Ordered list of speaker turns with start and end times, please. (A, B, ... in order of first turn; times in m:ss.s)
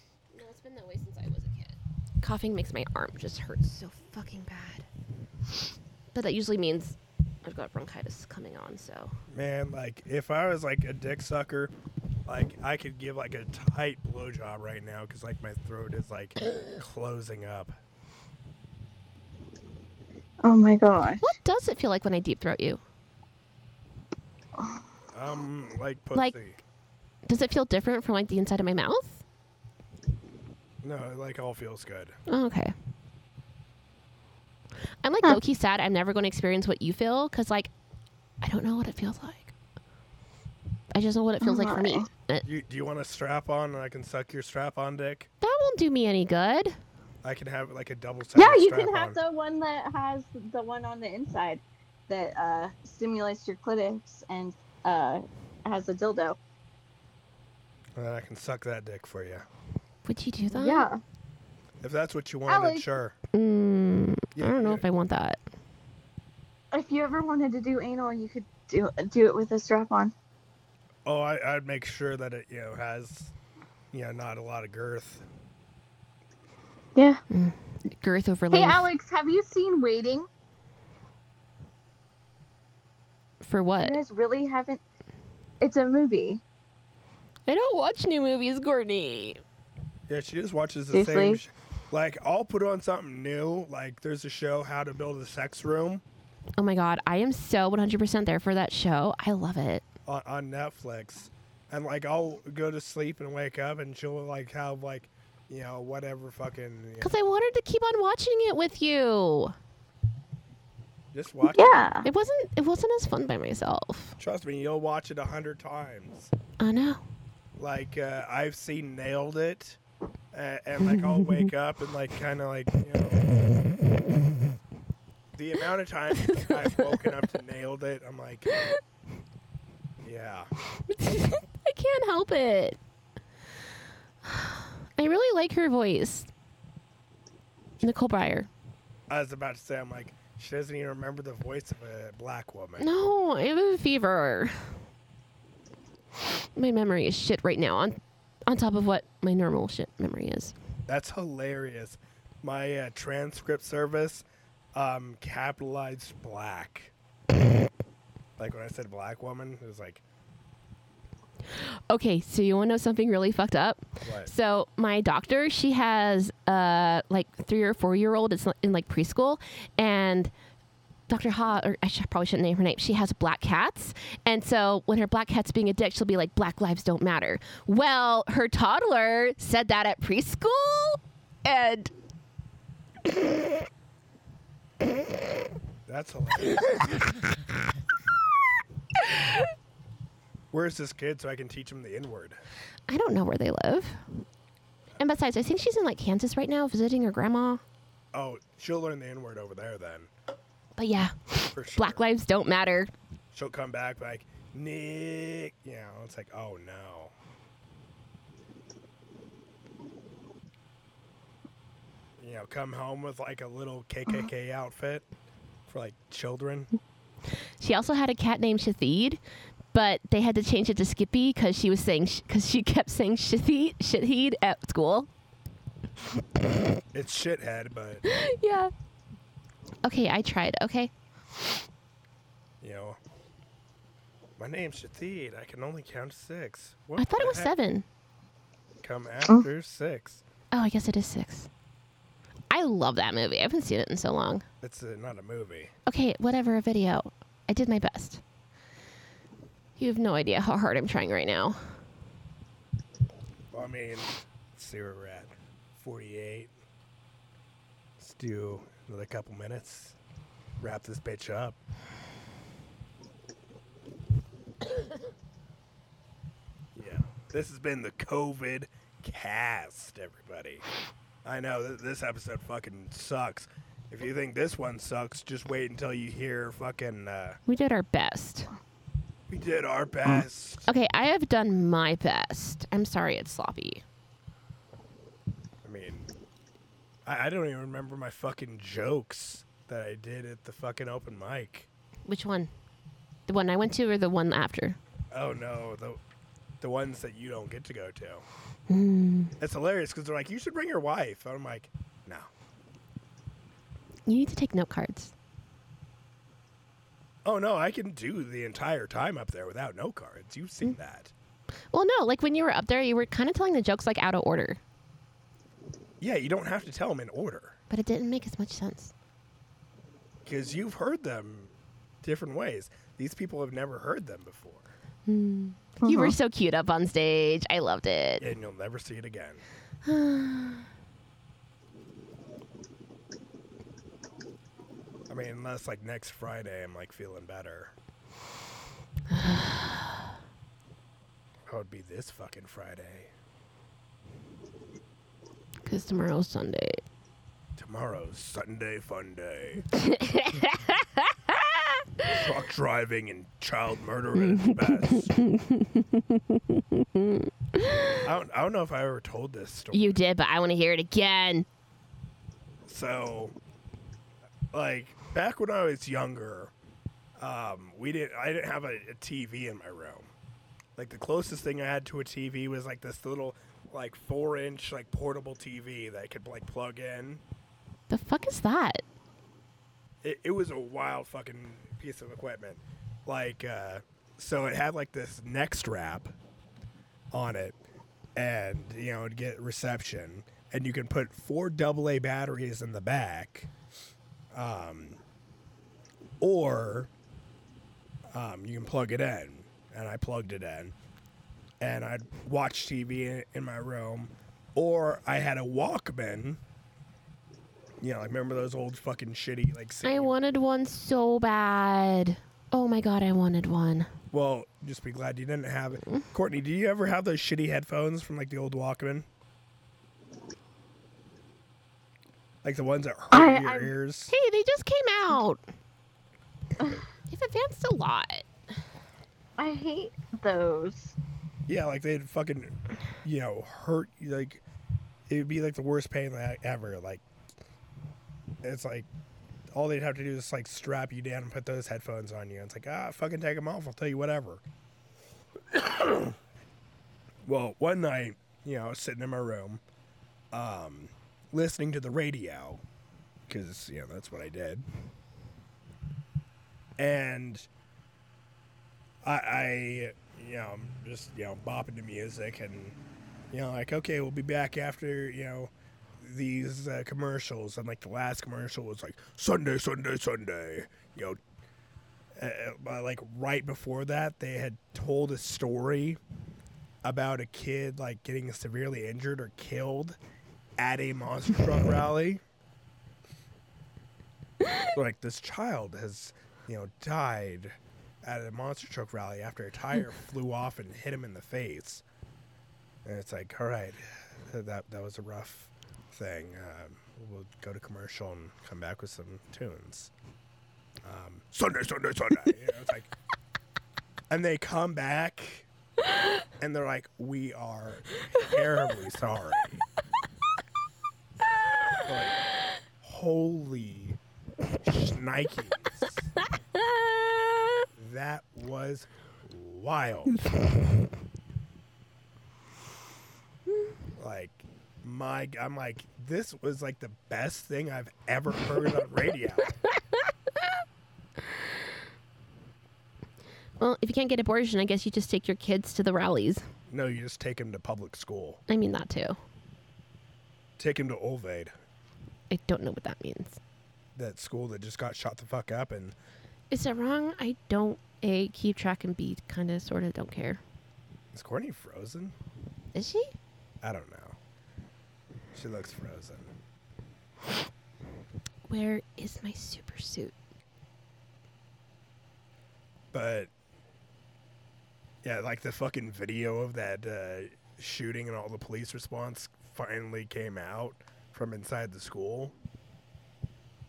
0:00.3-0:04.9 A
0:06.1-0:09.2 A
0:09.3-0:11.7 B
0:12.2-0:17.8 B
0:20.4-0:21.3 C
0:21.2-0:22.8 A
0:25.1-0:26.6 B
0:27.2-0:29.2 A
0:30.8-0:32.2 B
0:32.3-0:32.7 A
0:35.0-0:37.7 A
0:38.4-0:39.5 A
0:40.9-0:42.4 A
0:41.4-0:42.1 C
0:42.4-0:45.3 B
0:45.4-0:46.8 A
0:47.2-0:49.2 B
0:48.3-0:56.4 C
0:58.0-0:59.4 B
1:00.0-1:00.9 A
1:00.5-1:01.0 C
1:01.8-1:03.2 B
1:02.5-1:02.9 C
1:03.3-1:05.4 A
1:04.4-1:04.8 B
1:06.7-1:10.1 C
1:11.0-1:13.3 B
1:13.9-1:15.2 B
1:17.0-1:17.2 C
1:17.3-1:18.9 A
1:18.5-1:20.3 C
1:23.4-1:24.0 A
1:23.8-1:24.8 C
1:25.6-1:26.4 C
1:27.5-1:29.4 A
1:30.1-1:36.0 B
1:30.9-1:31.4 C
1:36.6-1:39.8 A
1:40.0-1:47.1 B
1:47.0-1:49.5 A
1:51.1-1:51.8 B
1:51.5-1:52.1 C
1:52.0-1:54.2 A
1:54.2-1:56.3 B
1:56.6-1:57.0 A
1:57.6-1:59.8 B
2:00.3-2:03.4 B
2:00.8-2:01.4 A
2:05.3-2:08.5 B
2:06.2-2:06.9 A
2:08.5-2:08.8 A
2:10.0-2:10.5 B
2:10.8-2:12.8 A
2:14.2-2:16.3 A
2:17.8-2:18.5 A
2:19.1-2:22.9 B
2:22.8-2:24.8 A
2:26.5-2:30.5 A
2:30.9-2:36.9 B
2:38.4-2:40.0 B
2:41.5-2:50.3 A
2:44.0-2:44.3 B
2:51.1-3:01.9 A
3:05.9-3:07.0 B
3:09.0-3:09.3 A
3:10.5-3:12.4 B
3:12.9-3:14.0 A
3:15.0-3:17.6 A
3:18.1-3:20.1 B
3:20.8-3:22.9 A
3:21.5-3:22.0 B
3:23.3-3:27.1 B
3:32.2-3:35.0 B
3:35.7-3:36.7 B
3:37.6-3:39.2 A
3:39.7-3:45.1 A
3:46.9-3:48.0 B
3:48.0-3:48.7 A
3:49.8-3:50.9 A
3:52.6-3:53.0 B
3:54.4-3:57.5 B
3:57.0-3:57.8 A
3:58.8-4:00.2 B
4:00.5-4:01.5 A
4:02.5-4:04.4 A
4:04.6-4:05.7 B
4:05.8-4:08.2 A
4:09.8-4:11.7 A
4:13.5-4:16.5 B
4:18.0-4:20.0 B
4:20.6-4:21.6 B
4:26.7-4:30.6 B
4:31.2-4:37.4 B
4:37.5-4:38.5 A
4:39.3-4:40.7 B
4:40.7-4:43.8 A
4:45.6-4:46.1 B
4:47.0-4:51.7 B
4:52.0-4:52.5 A
4:53.3-4:54.8 A
4:55.1-4:56.0 B
4:56.6-4:58.2 B
4:58.7-4:59.3 A
4:59.4-5:02.3 B
5:04.1-5:05.1 A
5:07.2-5:11.1 B
5:11.7-5:14.6 A
5:16.0-5:17.6 B
5:17.7-5:18.9 A
5:20.2-5:24.6 B
5:25.1-5:28.2 A
5:25.8-5:26.2 C
5:28.2-5:29.4 B
5:29.8-5:30.6 A
5:35.1-5:37.7 B
5:39.1-5:39.9 A
5:41.5-5:43.1 B
5:45.6-5:46.8 A
5:47.6-5:49.6 B
5:49.7-5:52.2 A
5:52.1-5:55.2 B
5:54.1-5:58.0 A
5:58.0-6:00.0 B
5:59.7-6:01.4 A
6:02.7-6:03.3 B
6:04.5-6:06.5 B
6:07.2-6:10.1 B
6:10.8-6:17.2 B
6:17.9-6:18.8 A
6:20.0-6:26.1 B
6:27.1-6:27.6 B
6:28.2-6:33.5 B
6:34.3-6:35.0 B
6:36.2-6:36.9 B
6:38.1-6:40.7 B
6:41.6-6:46.4 B
6:47.8-6:50.1 B
6:49.8-6:53.9 A
6:54.1-6:59.1 B
7:02.4-7:04.1 B
7:03.1-7:03.7 C
7:04.1-7:05.4 A
7:07.1-7:08.3 A
7:09.4-7:11.0 C
7:11.5-7:14.4 B
7:15.1-7:17.0 B
7:18.4-7:18.9 B
7:19.5-7:24.4 B
7:25.5-7:26.2 B
7:27.2-7:29.6 B
7:30.3-7:32.6 B
7:33.3-7:34.6 B
7:36.8-7:37.5 B
7:39.0-7:42.8 B
7:43.3-7:51.2 B
7:52.2-7:56.0 B
7:56.8-8:00.0 B
8:00.6-8:02.2 B
8:04.7-8:11.8 B
8:12.8-8:19.9 B
8:20.8-8:22.9 B
8:24.1-8:25.5 B
8:26.4-8:29.6 B
8:31.8-8:32.2 B
8:32.8-8:34.0 B
8:34.6-8:36.1 B
8:36.6-8:37.1 A
8:37.8-8:40.2 B
8:44.0-8:49.5 B
8:53.6-8:56.4 A
8:56.7-8:58.4 B
8:58.5-8:59.2 A
9:00.6-9:01.5 B
9:02.3-9:03.4 A
9:04.0-9:05.9 B
9:06.5-9:10.4 A
9:11.1-9:12.1 B
9:12.7-9:13.1 A
9:13.6-9:14.2 B
9:15.3-9:16.3 B
9:18.5-9:20.1 A
9:22.9-9:23.3 B
9:25.0-9:32.3 B